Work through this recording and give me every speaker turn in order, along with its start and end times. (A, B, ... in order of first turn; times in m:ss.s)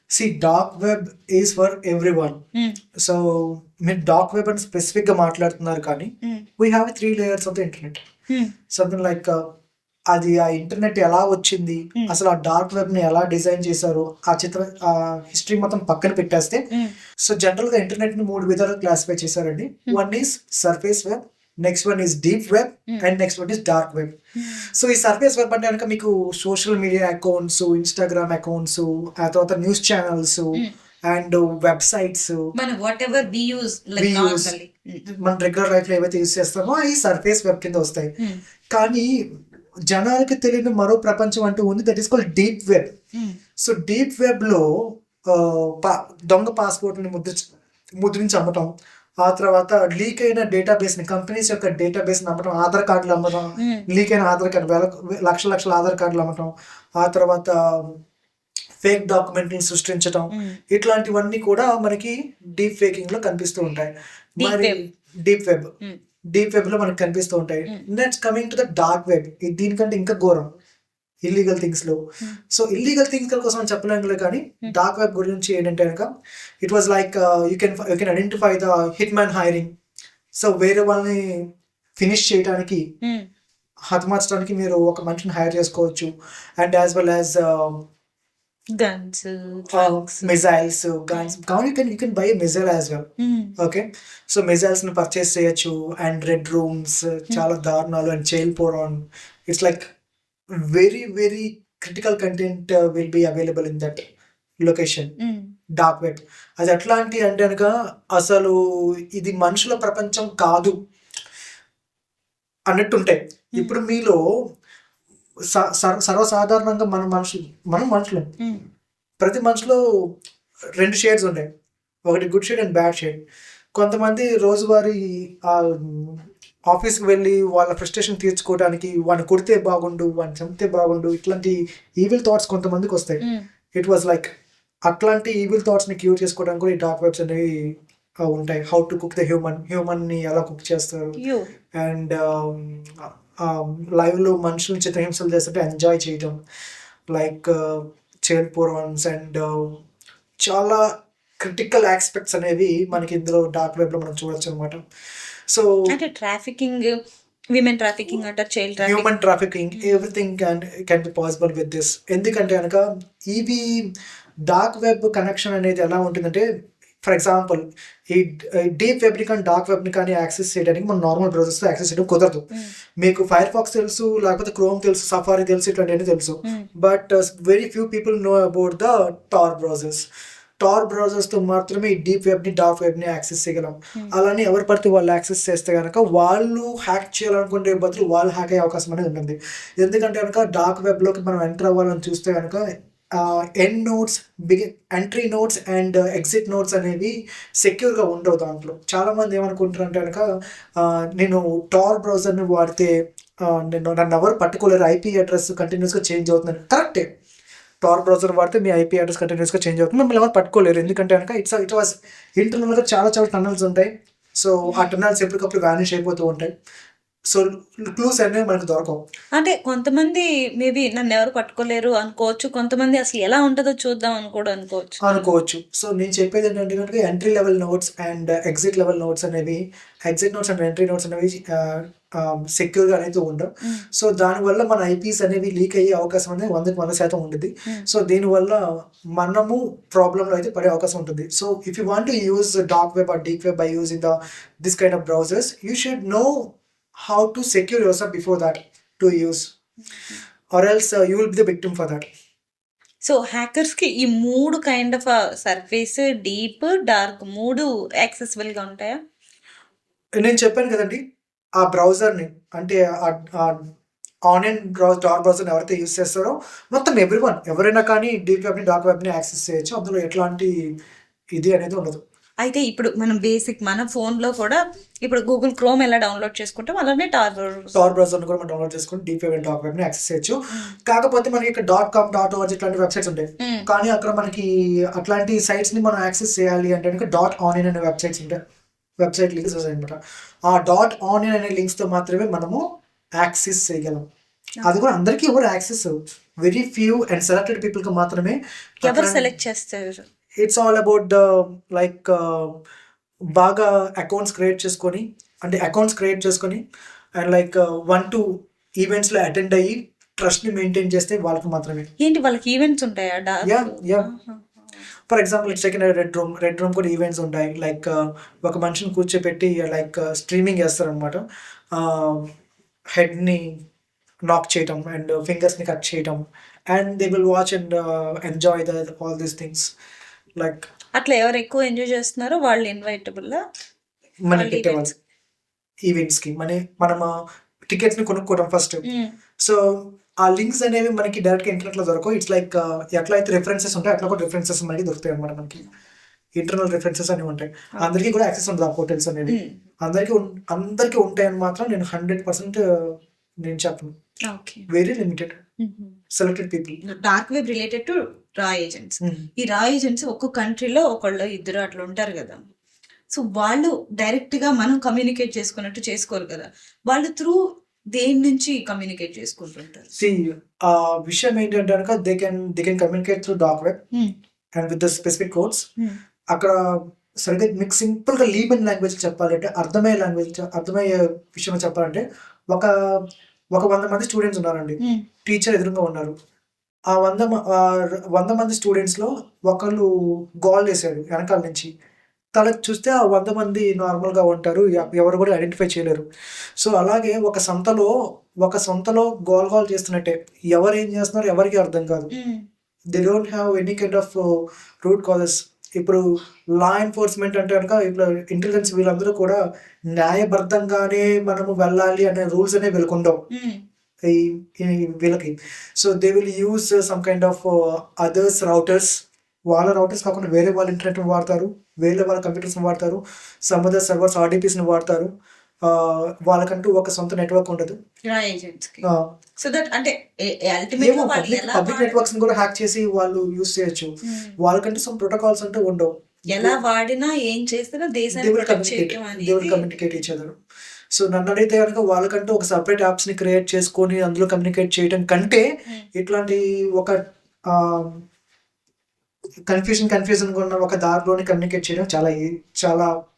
0:00.1-0:02.4 A
0:03.0-0:08.0 A
0:08.7-0:09.4 A
0:10.1-0:16.6 A
0:17.2-0:24.2 A
0:24.4-0:24.7 B
0:24.7-0:32.5 A
0:32.5-0:35.0 B
0:34.0-0:34.5 A
0:35.1-0:38.1 A
0:38.7-0:39.1 A
0:39.9-0:42.9 A
0:43.6-0:48.7 A
0:49.2-0:58.0 A
0:53.6-0:53.9 B
0:58.8-1:05.7 A
1:00.3-1:00.6 B
1:04.4-1:04.8 B
1:06.3-1:10.5 A
1:11.2-1:12.0 A
1:12.5-1:16.1 A
1:16.6-1:19.7 A
1:20.3-1:22.8 A
1:23.0-1:23.3 B
1:23.9-1:27.9 A
1:28.7-1:30.2 B
1:29.7-1:33.1 A
1:33.2-1:33.6 B
1:33.6-1:39.9 A
1:40.7-1:44.0 A
1:44.6-1:45.1 A
1:45.2-1:45.5 B
1:45.8-1:48.6 A
1:49.1-1:50.8 A
1:52.7-1:54.2 A
1:55.5-1:58.3 A
1:59.2-1:59.8 A
2:00.8-2:01.5 A
2:02.1-2:03.2 A
2:03.7-2:13.2 A
2:13.7-2:14.3 A
2:14.9-2:21.2 A
2:21.2-2:21.5 B
2:21.8-2:26.4 A
2:27.1-2:29.8 A
2:30.4-2:34.8 A
2:35.5-2:35.9 A
2:35.9-2:37.0 B
2:37.5-2:39.1 B
2:38.8-2:43.9 A
2:39.8-2:40.1 B
2:44.5-2:46.4 A
2:47.0-2:52.4 A
2:53.0-3:00.0 A
3:00.6-3:12.6 A
3:13.1-3:27.1 A
3:27.8-3:36.5 A
3:37.3-3:39.0 A
3:39.4-3:45.2 B
3:45.0-4:09.5 A
4:10.5-4:12.1 A
4:13.0-4:19.0 B
4:20.2-4:21.0 A
4:21.6-4:23.7 A
4:24.3-4:30.7 A
4:31.3-4:32.0 A
4:32.4-4:37.7 B
4:37.7-4:48.4 A
4:43.4-4:43.7 B
4:49.0-4:52.6 A
4:53.2-4:54.0 A
4:54.6-4:59.3 A
4:58.8-5:00.0 B
5:00.4-5:02.6 A
5:03.4-5:06.6 A
5:07.2-5:11.9 A
5:12.0-5:14.4 B
5:13.4-5:14.1 A
5:15.1-5:22.3 A
5:22.9-5:23.6 A
5:24.3-5:29.7 A
5:30.4-5:30.7 A
5:30.9-5:33.4 B
5:34.3-5:34.9 A
5:34.3-5:34.8 B
5:35.8-5:37.1 A
5:37.7-5:38.8 A
5:38.8-5:39.1 B
5:39.4-5:45.7 A
5:46.4-5:53.9 A
5:49.3-5:49.6 B
5:54.2-5:54.7 B
5:54.7-5:55.4 A
5:55.6-5:56.0 B
5:56.1-5:56.8 A
5:56.8-6:02.4 B
6:03.1-6:09.9 B
6:09.9-6:13.8 A
6:14.6-6:15.6 A
6:16.3-6:26.1 A
6:26.9-6:29.9 A
6:30.4-6:31.7 A
6:32.4-6:36.0 A
6:36.6-6:42.1 A
6:42.1-6:42.4 B
6:42.9-6:46.0 A
6:46.6-6:49.4 A
6:49.9-6:53.2 A
6:53.3-6:53.6 B
6:54.1-7:05.1 A
7:05.6-7:07.8 A
7:08.0-7:08.8 B
7:09.4-7:12.1 B
7:10.8-7:16.6 A
7:14.1-7:14.3 B
7:16.3-7:19.7 B
7:18.1-7:20.3 A
7:20.9-7:28.0 A
7:29.5-7:32.9 A